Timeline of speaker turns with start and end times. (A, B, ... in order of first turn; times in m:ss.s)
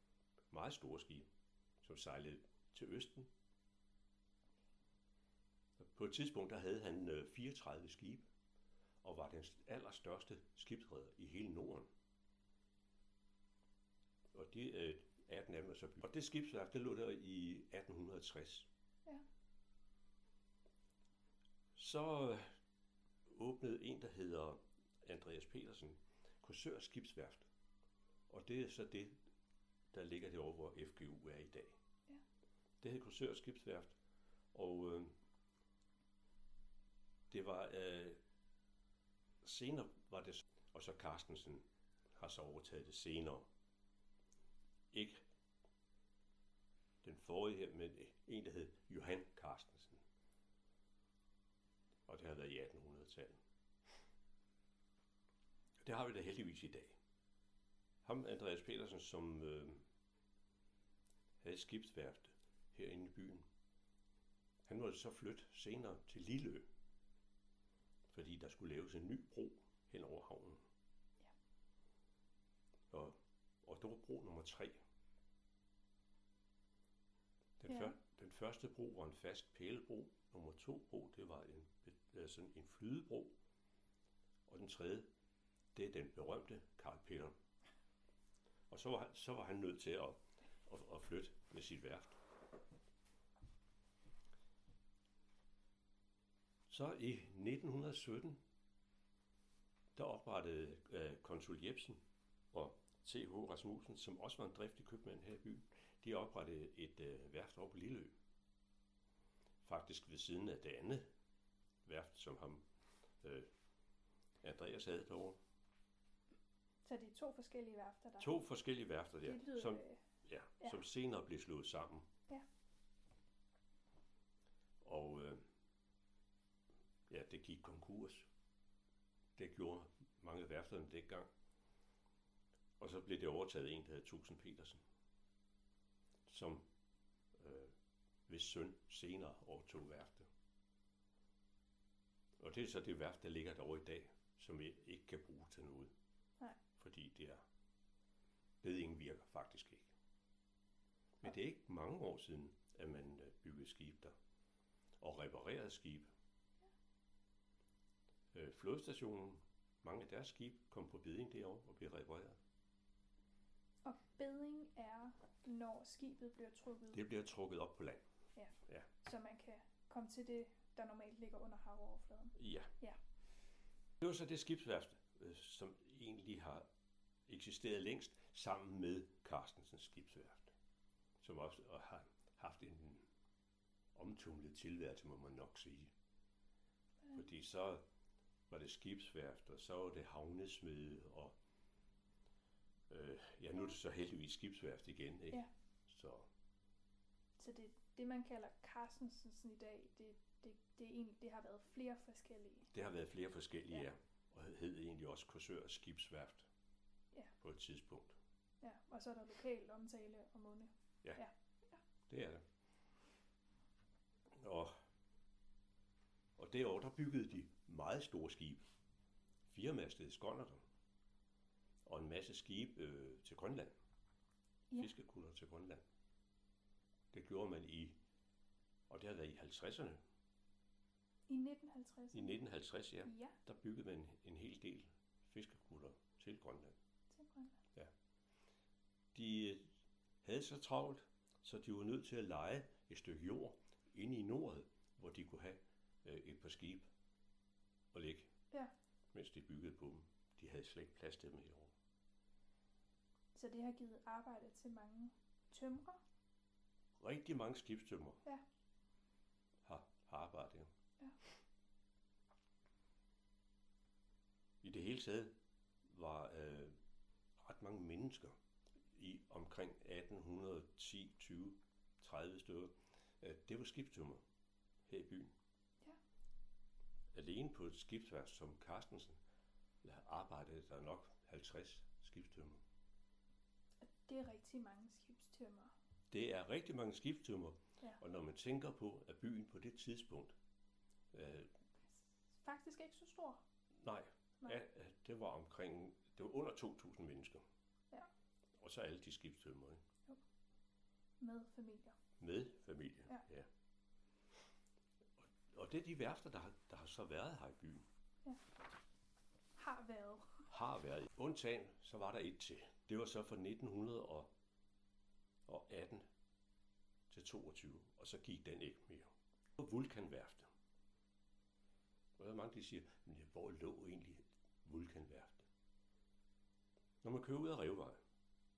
0:00.5-0:01.2 A
0:01.8-0:03.3 A
0:05.8-0:08.3 A
0:09.0-0:11.9 A
0:14.3-0:18.7 A
0:21.7-0:22.4 A
0:23.3-0:27.5 A
0:28.3-0:29.1 A
0:29.9-0:31.7 A
0:32.8-0:34.0 A
0:34.5-0:35.1 A
0:37.3-0:38.2 A
0:39.4-0:41.6 A
0:42.2-0:43.5 A
0:44.9-0:45.2 A
0:47.0-0:50.0 A
0:52.1-0:53.4 A
0:55.8-0:57.0 A
0:58.0-0:59.8 A
1:01.4-1:03.4 A
1:04.7-1:06.6 A
1:08.1-1:10.6 A
1:12.9-1:14.8 A
1:17.6-1:23.3 A
1:17.7-1:17.9 B
1:24.5-1:25.1 A
1:25.7-1:27.3 A
1:28.7-1:32.2 A
1:36.7-1:38.4 A
1:40.0-1:42.0 A
1:42.5-1:48.1 A
1:49.6-1:51.0 A
1:51.8-1:52.6 A
1:53.2-1:53.5 A
1:54.4-1:55.4 A
1:56.8-1:58.4 B
1:58.2-2:02.0 A
1:59.2-2:00.0 B
2:04.8-2:05.4 A
2:07.1-2:08.3 A
2:09.4-2:11.3 A
2:12.8-2:14.8 A
2:16.3-2:16.6 A
2:17.4-2:17.7 A
2:18.3-2:20.3 A
2:22.4-2:25.9 A
2:26.8-2:27.4 A
2:28.6-2:29.9 A
2:31.2-2:34.1 A
2:35.0-2:36.1 A
2:38.3-2:42.4 A
2:43.8-2:47.0 B
2:46.9-2:48.0 A
2:48.3-2:53.0 B
2:52.4-2:52.7 A
2:54.0-2:56.6 A
2:57.3-3:00.5 A
3:01.2-3:03.0 A
3:03.9-3:05.9 A
3:07.1-3:07.8 A
3:08.5-3:11.3 A
3:12.9-3:16.3 A
3:17.4-3:22.7 B
3:22.7-3:26.5 A
3:27.4-3:28.2 A
3:28.6-3:31.8 B
3:32.1-3:32.4 A
3:34.4-3:34.7 A
3:36.4-3:38.6 A
3:39.5-3:40.6 A
3:41.8-3:43.7 A
3:44.8-3:45.8 A
3:47.1-3:47.9 A
3:48.9-3:50.0 A
3:51.3-3:52.4 B
3:52.1-3:56.7 A
3:53.0-3:53.4 B
3:57.1-3:57.5 B
3:59.1-3:59.6 A
4:00.2-4:06.9 A
4:07.9-4:08.3 A
4:09.1-4:11.7 A
4:13.3-4:16.0 B
4:17.0-4:18.2 A
4:19.6-4:20.7 A
4:24.6-4:25.3 A
4:25.9-4:26.7 A
4:27.4-4:28.3 A
4:28.9-4:34.2 A
4:34.9-4:35.3 A
4:37.1-4:39.2 A
4:39.8-4:42.6 A
4:43.8-4:45.7 B
4:46.1-4:50.4 A
4:51.1-4:51.5 A
4:51.9-4:53.4 B
4:53.8-4:57.4 A
4:58.6-4:59.8 A
5:01.2-5:01.9 B
5:02.2-5:03.5 A
5:05.2-5:07.8 A
5:09.6-5:10.4 B
5:10.5-5:14.3 A
5:15.5-5:16.0 A
5:17.1-5:20.5 A
5:22.2-5:25.5 A
5:27.0-5:28.0 A